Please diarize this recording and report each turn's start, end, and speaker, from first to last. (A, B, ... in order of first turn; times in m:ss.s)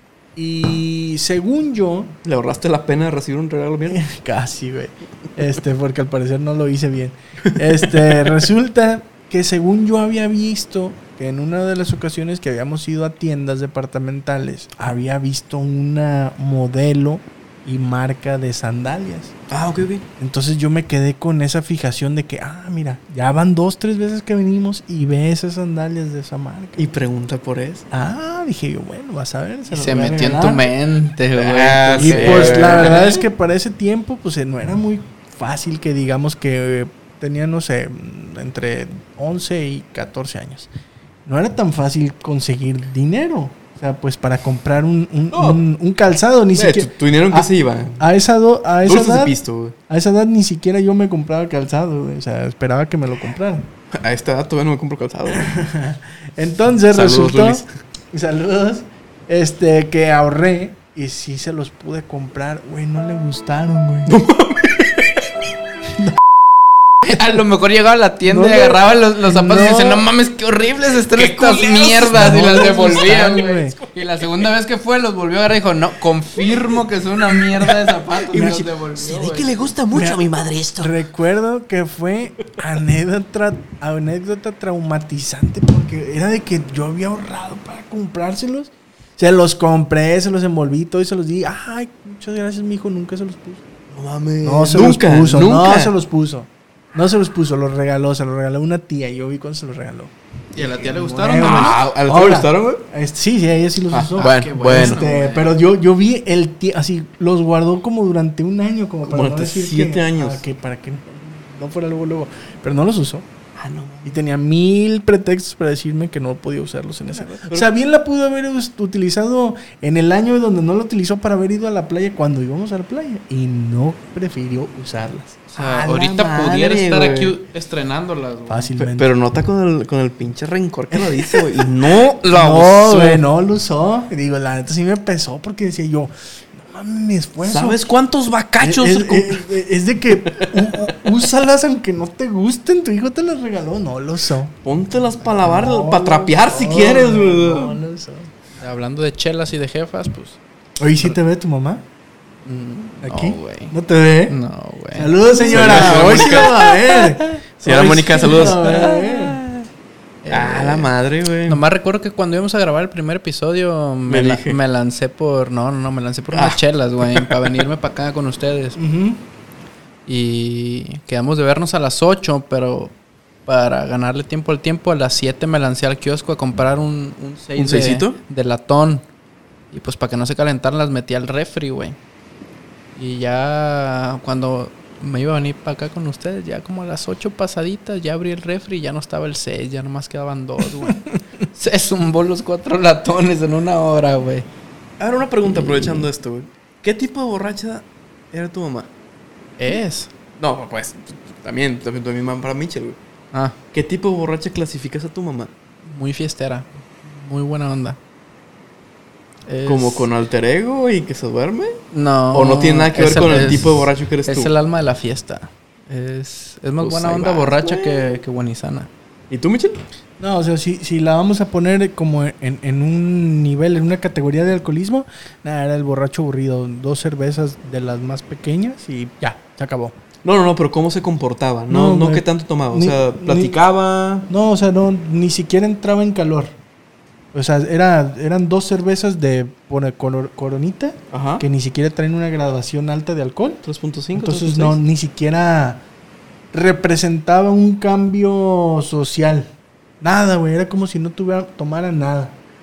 0:00.4-0:02.1 A
0:02.2-0:04.0 B
0:03.9-0:19.3 A
0:19.5-0:20.0 B
0:20.2-0:26.9 A
0:26.8-0:27.9 B
0:27.9-0:30.7 A
0:29.7-0:33.0 C
0:31.4-0:33.2 B
0:32.0-0:40.7 A
0:41.3-0:49.4 A
0:45.3-0:45.6 B
0:46.6-0:48.1 B
0:48.8-0:49.8 B
0:49.9-0:53.7 A
0:53.9-0:55.5 B
0:55.3-1:04.2 A
0:56.9-0:57.7 B
1:04.1-1:05.3 B
1:07.0-1:19.7 C
1:08.3-1:10.0 A
1:11.0-1:13.4 B
1:12.1-1:13.8 A
1:18.2-1:20.9 B
1:18.3-1:18.6 A
1:19.9-1:20.2 A
1:20.8-1:33.6 A
1:33.9-1:35.9 B
1:34.4-1:53.3 A
1:40.5-1:41.8 C
1:41.4-1:42.8 B
1:43.9-1:45.0 B
1:44.2-1:45.5 C
1:49.1-1:50.4 B
1:53.6-1:54.2 B
1:54.0-2:05.5 A
1:57.1-1:57.7 B
2:05.5-2:08.7 C
2:05.6-2:07.4 B
2:08.5-2:09.1 A
2:08.8-2:13.2 B
2:10.9-2:17.8 A
2:17.4-2:19.4 B
2:18.6-2:24.5 A
2:20.2-2:20.9 B
2:24.6-2:27.8 B
2:25.4-2:28.3 A
2:28.6-2:30.4 C
2:30.8-2:31.8 A
2:32.4-2:33.7 C
2:33.0-2:34.4 A
2:34.3-2:35.8 C
2:35.0-2:39.4 A
2:35.4-2:39.7 B
2:40.2-2:40.9 C
2:40.3-2:41.6 B
2:41.5-2:48.8 C
2:44.1-2:44.6 B
2:46.3-2:47.6 B
2:48.8-2:49.2 A
2:50.1-2:52.9 C
2:53.5-2:59.0 C
2:57.6-2:58.2 B
2:59.7-3:02.0 C
3:03.0-3:14.5 C
3:15.0-3:18.9 B
3:15.6-3:16.0 C
3:19.6-3:20.1 C
3:20.4-3:23.0 B
3:23.7-3:25.5 B
3:25.8-3:28.0 C
3:29.5-3:30.1 C
3:29.7-3:31.8 B
3:31.9-3:38.9 C
3:32.3-3:34.5 B
3:36.8-3:38.2 B
3:39.3-3:39.8 B
3:40.2-3:50.0 A
3:50.2-3:54.3 B
3:51.7-3:53.6 A
3:54.3-3:56.6 A
3:57.3-4:03.6 A
4:01.1-4:01.4 B
4:03.6-4:04.8 B
4:04.2-4:05.8 A
4:06.5-4:12.4 A